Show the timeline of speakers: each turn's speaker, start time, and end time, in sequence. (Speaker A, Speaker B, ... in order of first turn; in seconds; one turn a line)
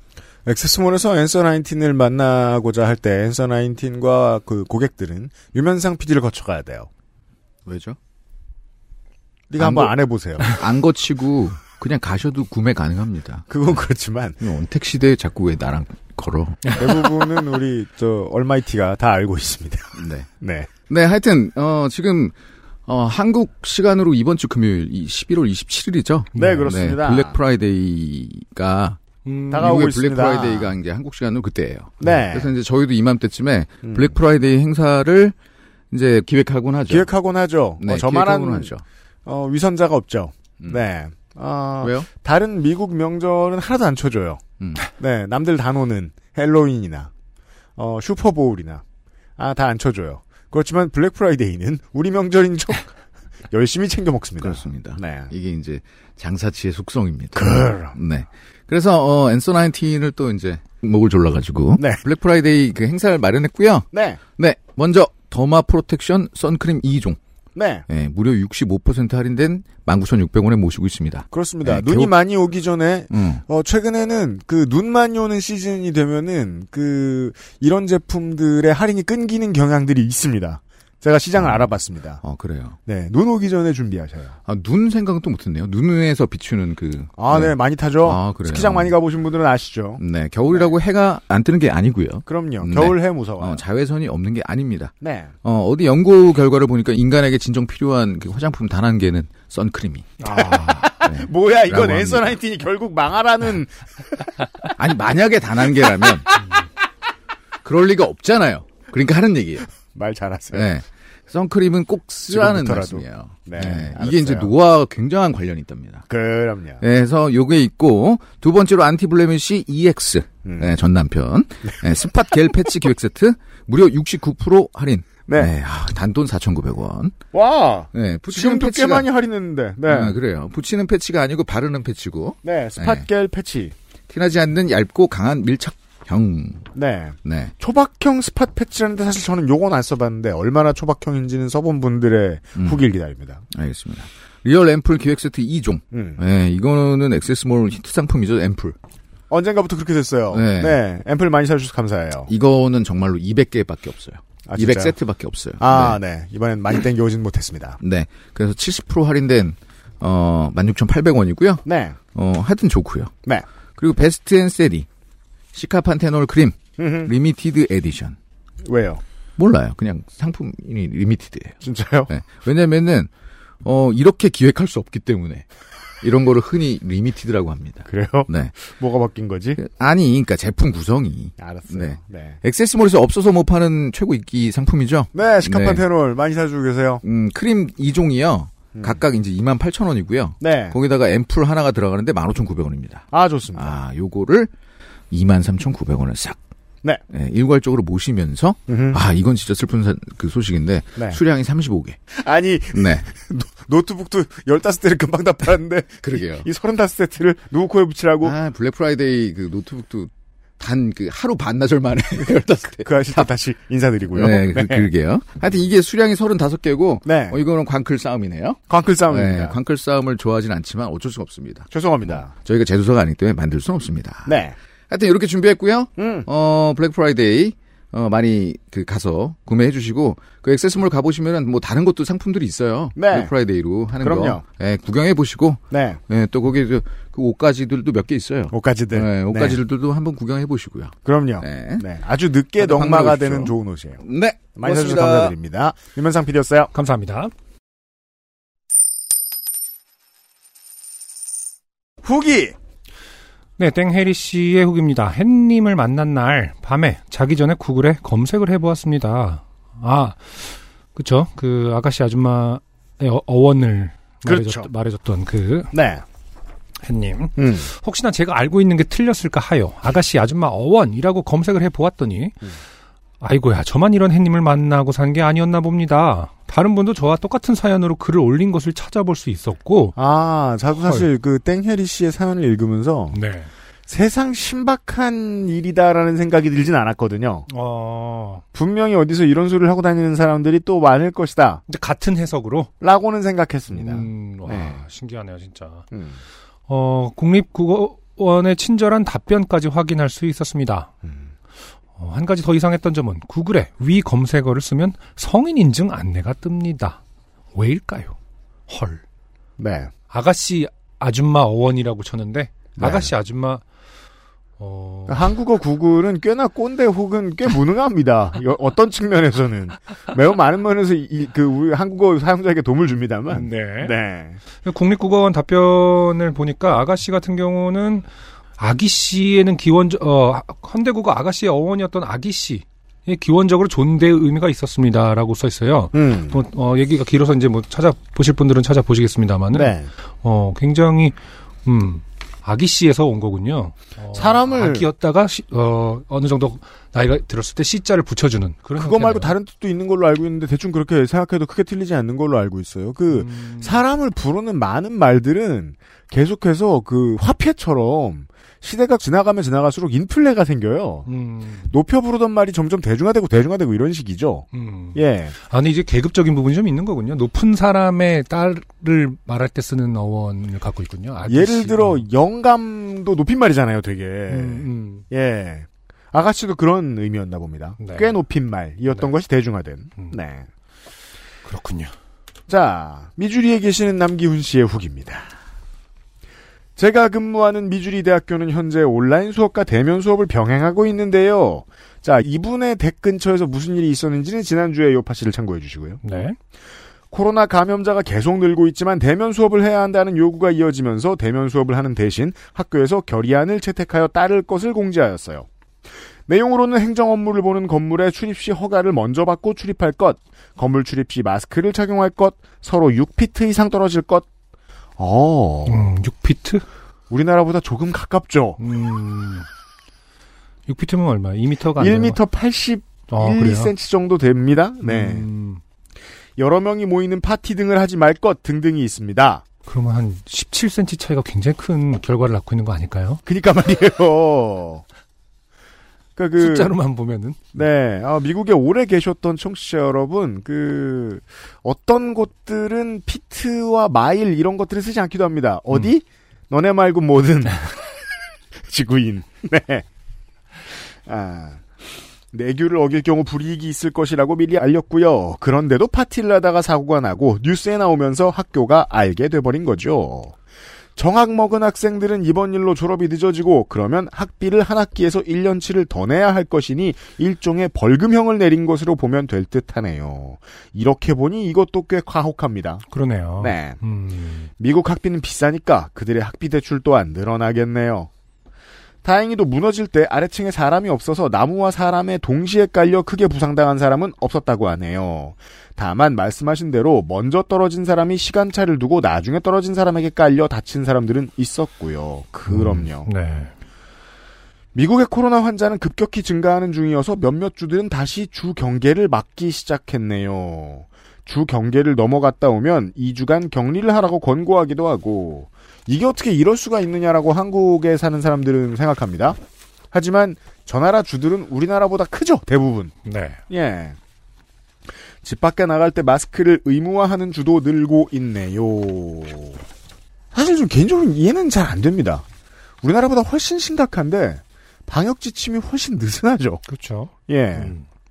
Speaker A: 0.5-6.9
Speaker B: 7.7-8.0
Speaker A: 9.5-10.6
Speaker B: 9.6-9.9
Speaker B: 10.5-13.6
Speaker A: 13.5-14.4
Speaker B: 14.4-16.9
Speaker A: 16.8-20.7
Speaker B: 20.0-20.3
Speaker B: 20.9-22.4
Speaker B: 22.9-29.0
Speaker C: 26.3-26.6
Speaker A: 26.4-27.4
Speaker C: 29.3-29.6
Speaker A: 29.5-30.7
Speaker B: 29.5-35.4
Speaker A: 32.0-32.5
Speaker A: 33.8-34.1
Speaker B: 35.9-37.1
Speaker A: 36.9-38.7
Speaker B: 37.8-38.8
Speaker A: 39.3-44.4
Speaker B: 41.8-42.1
Speaker A: 45.0-47.1
Speaker A: 47.8-48.8
Speaker A: 49.4-52.9
Speaker A: 53.5-55.3
Speaker B: 54.4-67.2
Speaker A: 57.4-58.0
Speaker A: 63.9-64.2
Speaker A: 67.6-67.8
Speaker B: 67.9-72.1
Speaker A: 71.3-82.2
Speaker B: 73.1-73.4
Speaker B: 81.4-81.7
Speaker B: 82.2-82.8
Speaker A: 82.9-84.4
Speaker B: 84.5-89.0
Speaker A: 87.2-90.0
Speaker B: 90.0-94.9
Speaker A: 92.3-93.6
Speaker A: 95.0-95.3
Speaker B: 95.4-100.4
Speaker C: 100.2-100.9
Speaker A: 100.3-104.3
Speaker B: 101.0-102.4
Speaker B: 104.8-106.3
Speaker B: 107.6-109.7
Speaker A: 110.0-110.7
Speaker B: 110.5-116.1
Speaker A: 112.3-114.5
Speaker A: 116.1-116.8
Speaker B: 116.8-127.2
Speaker A: 120.4-120.8
Speaker A: 121.7-122.4
Speaker A: 125.3-125.5
Speaker A: 127.3-130.2
Speaker B: 127.9-129.1
Speaker B: 129.9-133.1
Speaker A: 132.4-133.7
Speaker B: 134.1-136.7
Speaker A: 136.8-143.4
Speaker B: 137.2-137.5
Speaker B: 143.5-148.8
Speaker A: 145.9-146.2
Speaker A: 149.3-152.3
Speaker B: 150.3-150.8
Speaker B: 152.3-156.0
Speaker A: 154.5-155.0
Speaker A: 155.6-157.8
Speaker B: 157.8-163.2
Speaker A: 161.7-162.0
Speaker B: 163.8-164.9
Speaker B: 165.5-168.2
Speaker A: 166.8-167.1
Speaker A: 168.7-169.0
Speaker B: 169.4-173.1
Speaker A: 171.6-172.1
Speaker B: 173.6-175.5
Speaker B: 176.0-178.5
Speaker A: 177.9-179.6
Speaker B: 179.6-185.8
Speaker A: 181.4-182.4
Speaker A: 185.1-187.0
Speaker B: 187.0-194.5
Speaker A: 188.7-189.0
Speaker A: 190.4-190.8
Speaker A: 193.1-193.8
Speaker B: 195.1-196.4
Speaker B: 197.1-202.0
Speaker A: 198.7-199.0
Speaker A: 202.2-208.3
Speaker B: 202.7-203.0
Speaker B: 206.0-206.5
Speaker B: 208.2-213.3
Speaker A: 212.2-214.8
Speaker B: 214.1-224.4
Speaker A: 217.1-217.4
Speaker A: 218.7-219.6
Speaker A: 221.7-222.3
Speaker A: 224.3-224.6
Speaker B: 224.9-241.9
Speaker A: 226.0-226.3
Speaker A: 233.0-233.3
Speaker A: 234.0-234.4
Speaker A: 235.7-236.0
Speaker A: 238.5-239.6
Speaker A: 241.1-244.0
Speaker B: 242.6-245.3
Speaker A: 244.6-246.7
Speaker C: 246.7-247.3
Speaker A: 252.0-252.6
Speaker C: 253.6-265.8
Speaker A: 264.3-264.7
Speaker A: 265.7-266.0
Speaker C: 266.8-272.5
Speaker A: 267.4-267.7
Speaker C: 273.2-279.9
Speaker A: 280.0-283.2
Speaker C: 283.1-283.5
Speaker A: 283.9-287.5
Speaker C: 287.5-288.4
Speaker A: 288.6-291.6
Speaker C: 291.7-292.7
Speaker A: 292.8-294.8
Speaker C: 293.7-295.9
Speaker A: 295.9-296.2
Speaker C: 296.7-300.9
Speaker C: 302.0-307.0
Speaker C: 307.6-308.2
Speaker C: 308.7-309.0
Speaker A: 309.6-309.9
Speaker C: 310.1-313.6
Speaker A: 312.8-313.1
Speaker C: 314.6-315.2
Speaker A: 315.1-324.4
Speaker C: 323.3-323.9
Speaker C: 324.6-328.1
Speaker C: 328.6-349.3
Speaker A: 335.9-336.4
Speaker A: 339.5-339.9
Speaker A: 344.1-344.9
Speaker A: 348.8-361.1
Speaker C: 353.1-353.8
Speaker C: 361.1-361.7
Speaker A: 361.7-365.4
Speaker C: 364.5-372.1
Speaker A: 371.3-380.5
Speaker C: 374.3-375.0
Speaker C: 377.8-378.1
Speaker C: 381.4-381.9
Speaker A: 382.5-385.3
Speaker A: 386.8-396.0
Speaker C: 396.0-396.4
Speaker A: 397.1-405.5
Speaker A: 406.3-414.3
Speaker A: 415.0-415.9
Speaker C: 415.7-416.6
Speaker A: 417.1-418.6
Speaker C: 418.6-419.5
Speaker C: 420.7-422.2
Speaker A: 421.8-425.3
Speaker C: 423.1-423.7
Speaker C: 424.8-425.6
Speaker A: 426.4-429.4
Speaker C: 429.7-433.2
Speaker A: 433.3-434.8
Speaker A: 436.2-436.7
Speaker C: 436.4-437.4
Speaker A: 437.5-447.8
Speaker A: 448.7-449.8
Speaker A: 451.1-460.4
Speaker A: 461.0-472.8
Speaker C: 472.9-474.5
Speaker A: 473.4-473.8
Speaker A: 474.6-478.1
Speaker A: 479.0-493.1
Speaker C: 492.5-493.5
Speaker A: 494.7-509.4
Speaker A: 509.9-512.9
Speaker C: 513.1-513.4
Speaker A: 513.5-514.0
Speaker A: 515.2-519.6
Speaker A: 520.3-522.2
Speaker A: 522.8-526.6
Speaker C: 526.7-527.8
Speaker A: 527.3-527.7